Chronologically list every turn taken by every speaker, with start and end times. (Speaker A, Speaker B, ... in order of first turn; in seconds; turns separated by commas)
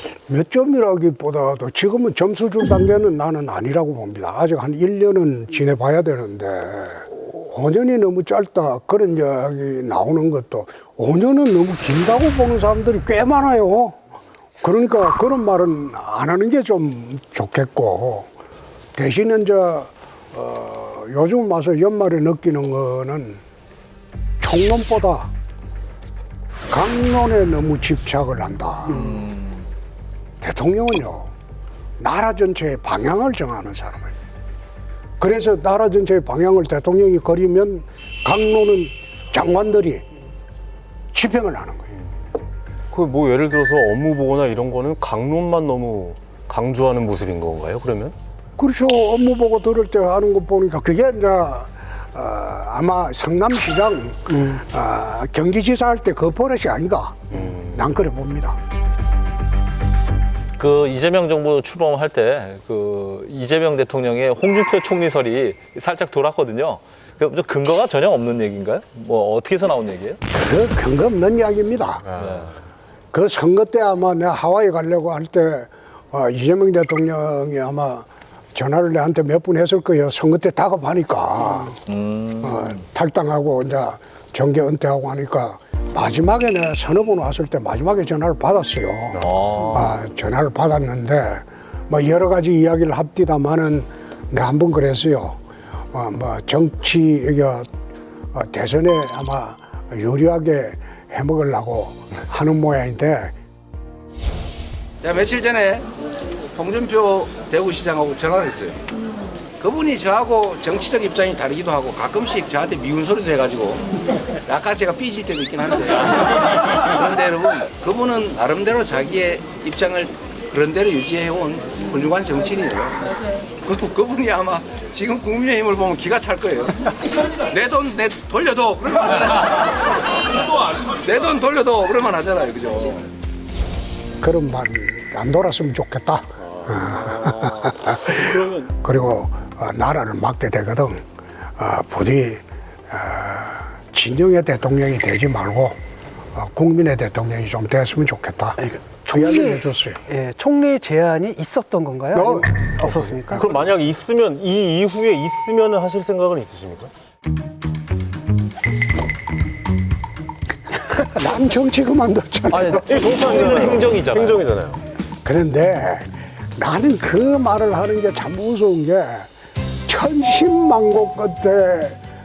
Speaker A: 0.3-14.0, Speaker A: 14.6-18.3, Speaker A: 18.9-23.4, Speaker A: 24.4-25.3, Speaker A: 26.7-29.2, Speaker B: 28.9-29.6, Speaker A: 30.4-31.3, Speaker A: 32.0-34.1, Speaker A: 35.2-40.0, Speaker A: 41.1-41.9, Speaker C: 42.9-48.1, Speaker A: 48.6-58.6, Speaker B: 60.6-70.2, Speaker A: 70.3-72.1, Speaker B: 72.2-72.5, Speaker A: 73.1-81.8, Speaker B: 81.9-82.7, Speaker A: 82.4-95.4, Speaker B: 89.2-89.9, Speaker A: 95.9-97.7, Speaker A: 98.3-103.3, Speaker D: 105.0-105.9, Speaker D: 106.5-108.8, Speaker D: 109.6-133.1, Speaker A: 134.2-141.0, Speaker C: 136.7-138.6, Speaker A: 141.6-145.8, Speaker A: 146.3-148.6, Speaker E: 148.6-153.5, Speaker A: 149.1-150.0, Speaker A: 152.1-152.5, Speaker C: 152.8-156.9, Speaker A: 161.0-163.2, Speaker B: 162.5-164.5, Speaker C: 162.8-164.8, Speaker A: 165.2-169.3, Speaker A: 169.9-172.0